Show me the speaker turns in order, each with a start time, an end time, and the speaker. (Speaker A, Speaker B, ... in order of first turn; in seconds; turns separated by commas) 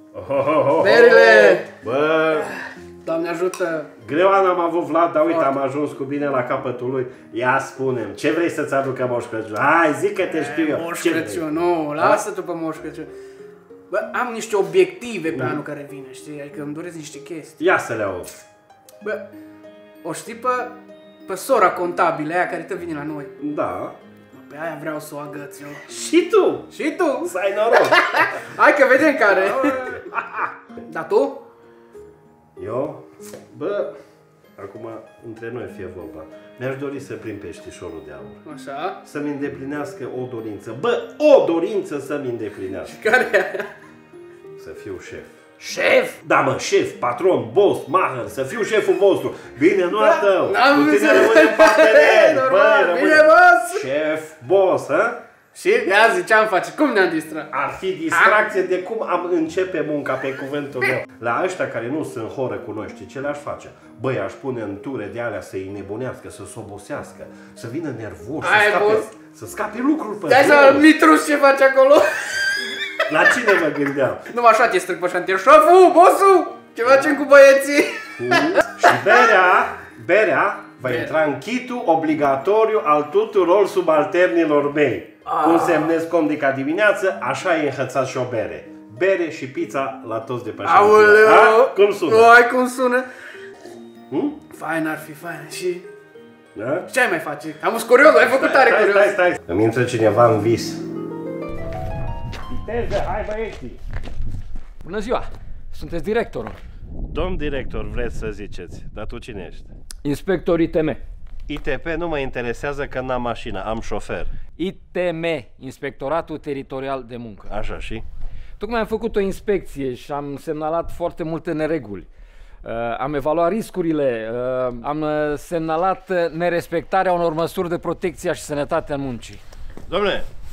Speaker A: 0.1-2.5, Speaker B: 0.8-1.7, Speaker B: 2.4-3.9, Speaker A: 4.0-11.4, Speaker B: 5.3-5.5, Speaker B: 10.3-13.1, Speaker A: 12.0-12.2, Speaker B: 13.9-17.6, Speaker A: 15.3-15.6, Speaker A: 17.6-18.3, Speaker B: 19.0-19.3, Speaker B: 20.0-20.8, Speaker B: 21.3-23.3, Speaker A: 23.4-23.9, Speaker B: 24.3-25.9, Speaker A: 25.9-26.7, Speaker B: 26.7-29.7, Speaker A: 27.2-28.3, Speaker A: 29.3-30.5, Speaker B: 30.9-31.4, Speaker A: 32.6-33.9, Speaker A: 34.6-38.4, Speaker B: 38.5-39.0, Speaker A: 39.0-42.9, Speaker B: 42.9-43.7, Speaker A: 44.6-45.4, Speaker B: 45.7-46.1, Speaker A: 46.2-55.2, Speaker B: 50.0-53.8, Speaker B: 55.5-57.5, Speaker A: 57.5-70.9, Speaker B: 58.1-58.4, Speaker B: 68.4-69.1, Speaker B: 70.3-72.5, Speaker A: 73.1-74.2, Speaker B: 74.3-78.9, Speaker A: 78.2-92.3, Speaker B: 80.8-81.1, Speaker B: 85.3-85.9, Speaker B: 90.7-93.1, Speaker A: 94.1-94.4, Speaker B: 94.5-95.8, Speaker A: 96.5-96.9, Speaker B: 96.9-99.2, Speaker A: 98.2-100.8, Speaker A: 102.5-103.8, Speaker C: 104.8-106.6, Speaker A: 107.1-109.7, Speaker C: 110.0-111.0, Speaker A: 111.5-114.3, Speaker C: 114.6-117.5, Speaker A: 117.5-118.0, Speaker C: 118.6-122.1, Speaker C: 122.6-129.4, Speaker A: 129.9-130.3